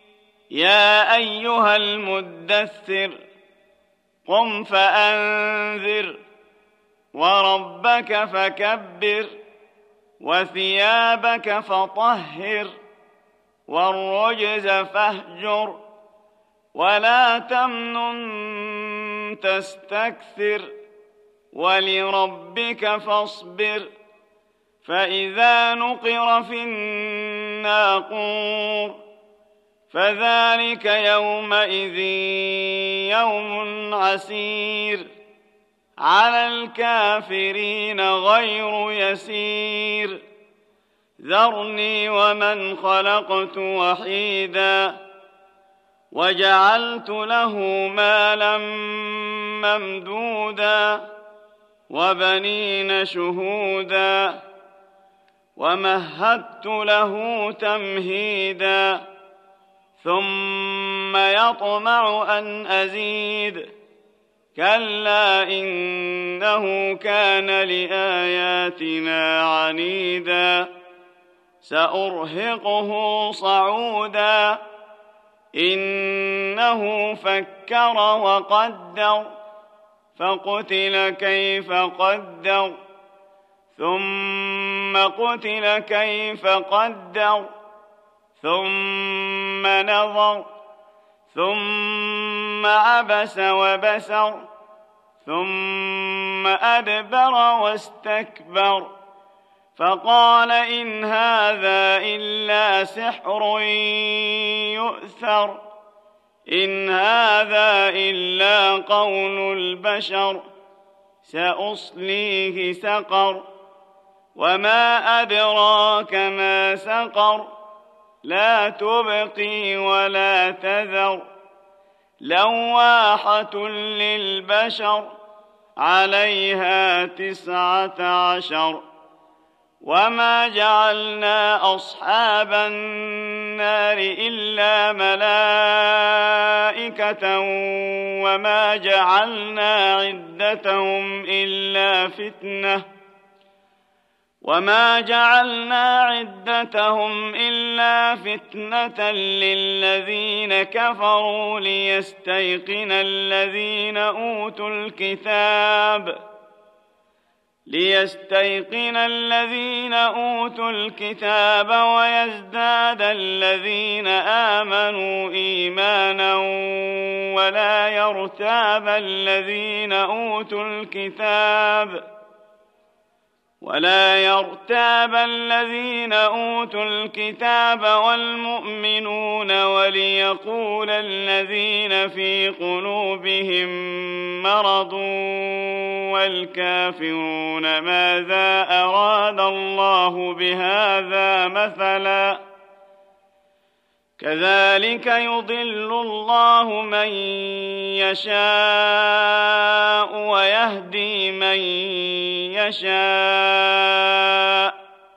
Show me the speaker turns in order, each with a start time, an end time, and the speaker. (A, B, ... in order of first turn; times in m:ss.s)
0:00.5-0:03.2 A
0:04.2-0:06.2 A
0:07.1-0:09.4 A
0:10.2-0:12.7 A
0:13.7-0:15.8 A
0:16.7-0:20.7 A
0:21.5-0:23.9 A
0:24.8-0:29.0 A
0:29.9-0:35.1 A
0:36.0-0:40.2 A
0:41.2-0:45.0 A
0:46.1-0:51.1 A
0:51.9-0:54.4 A
0:55.6-0:59.0 A
1:00.0-1:03.7 A
1:04.6-1:10.7 A
1:11.6-1:14.6 A
1:15.6-1:19.3 A
1:20.2-1:22.8 A
1:23.8-1:27.5 A
1:28.4-1:30.5 A
1:31.3-1:34.4 A
1:35.2-1:38.9 A
1:39.8-1:45.6 A
1:46.5-1:50.4 A
1:51.2-1:53.5 A
1:54.4-1:57.5 A
1:58.2-2:01.2 A
2:02.2-2:05.1 A
2:05.8-2:08.8 A
2:09.8-2:22.8 A
2:24.4-2:36.2 A
2:37.7-2:52.0 A
2:53.6-3:12.4 A
3:14.2-3:24.7 A